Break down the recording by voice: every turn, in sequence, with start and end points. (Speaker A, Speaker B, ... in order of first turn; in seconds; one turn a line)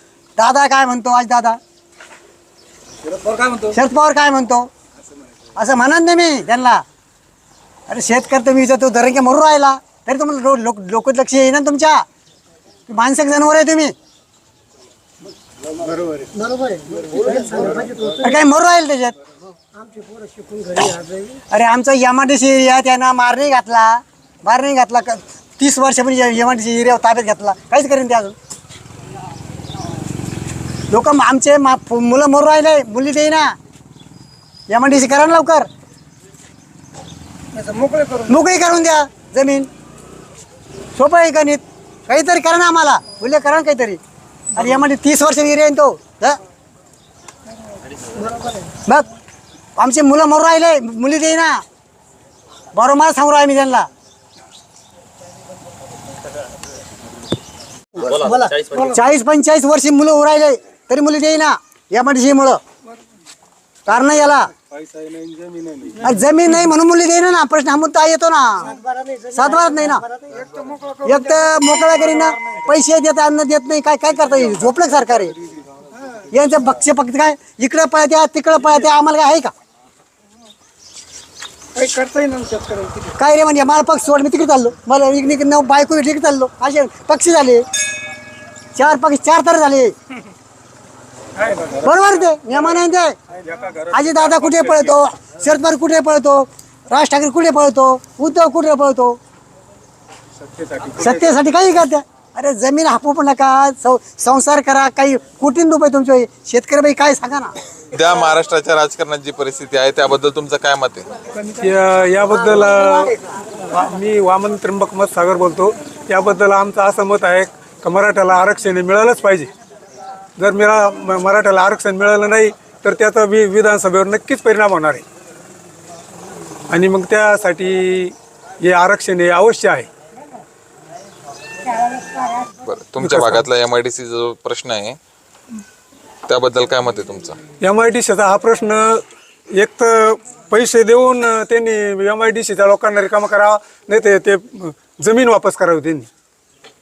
Speaker A: 0.4-1.6
Speaker A: 3.6-4.7
Speaker A: 5.6-6.8
Speaker A: 7.9-12.1
Speaker A: 12.9-13.9
Speaker B: 16.3-18.4
Speaker A: 18.2-19.1
Speaker B: 19.7-21.4
Speaker A: 21.5-28.3
Speaker A: 30.9-33.5
Speaker A: 34.7-35.7
Speaker A: 38.3-39.7
Speaker A: 40.9-44.0
Speaker A: 44.5-46.4
Speaker A: 49.8-51.6
Speaker A: 52.8-53.9
Speaker B: 58.0-59.0
Speaker A: 58.9-62.6
Speaker A: 63.9-64.5
Speaker C: 65.0-65.4
Speaker A: 66.0-68.7
Speaker B: 68.6-70.6
Speaker A: 69.3-70.0
Speaker A: 71.0-75.4
Speaker A: 76.3-79.5
Speaker C: 81.8-82.7
Speaker A: 83.2-87.6
Speaker A: 88.8-89.9
Speaker A: 91.8-93.2
Speaker A: 93.9-99.2
Speaker A: 100.9-107.5
Speaker D: 107.9-111.1
Speaker C: 111.6-113.2
Speaker B: 112.4-112.8
Speaker C: 113.7-119.5
Speaker C: 120.4-125.0
Speaker C: 126.7-129.9
Speaker D: 132.6-135.0
Speaker C: 133.0-133.4
Speaker D: 136.3-137.4
Speaker C: 137.6-139.0
Speaker C: 139.6-146.1